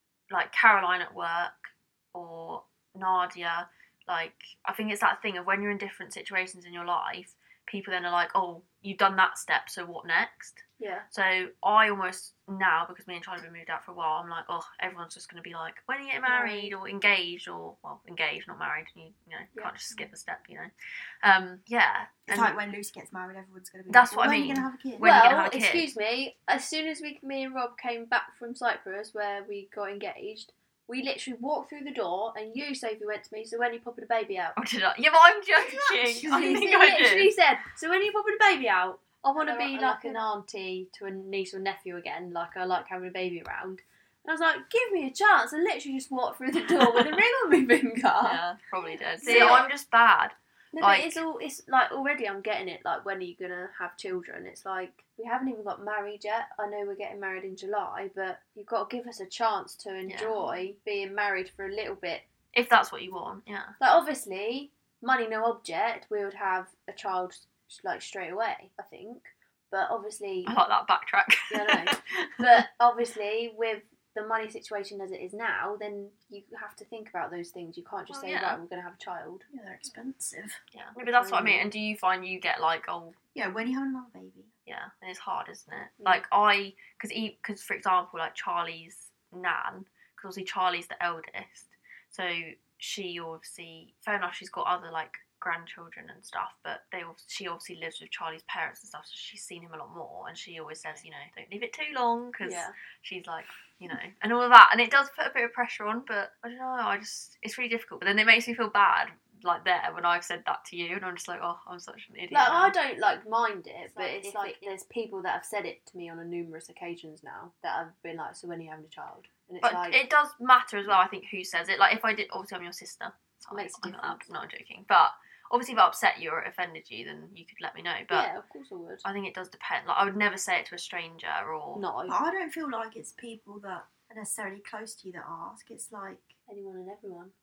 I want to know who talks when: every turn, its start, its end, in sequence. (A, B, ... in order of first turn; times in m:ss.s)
0:00.3-0:20.7 A
0:10.8-0:11.1 B
0:16.2-0:16.8 B
0:21.2-0:22.6 A
0:22.3-0:25.1 C
0:23.9-0:25.9 A
0:25.0-0:34.6 B
0:34.6-0:37.3 A
0:35.6-0:36.8 C
0:36.3-0:48.4 B
0:39.4-0:40.3 C
0:48.2-0:51.2 A
0:49.2-0:49.7 C
0:49.2-0:49.7 B
0:50.7-1:02.3 B
1:00.1-1:00.4 A
1:02.5-1:03.8 A
1:03.8-1:10.6 B
1:10.5-1:12.6 A
1:11.5-1:19.5 B
1:18.1-1:18.6 A
1:19.5-1:20.6 C
1:20.7-1:23.2 A
1:21.0-1:21.7 B
1:23.4-1:24.5 C
1:24.7-1:52.8 A
1:42.4-1:42.7 B
1:52.3-2:00.0 B
1:53.9-1:54.7 A
1:59.6-2:08.3 A
2:03.5-2:04.3 B
2:08.1-2:09.1 B
2:09.0-2:11.8 A
2:11.8-2:12.2 B
2:12.1-2:16.4 C
2:16.5-2:17.3 B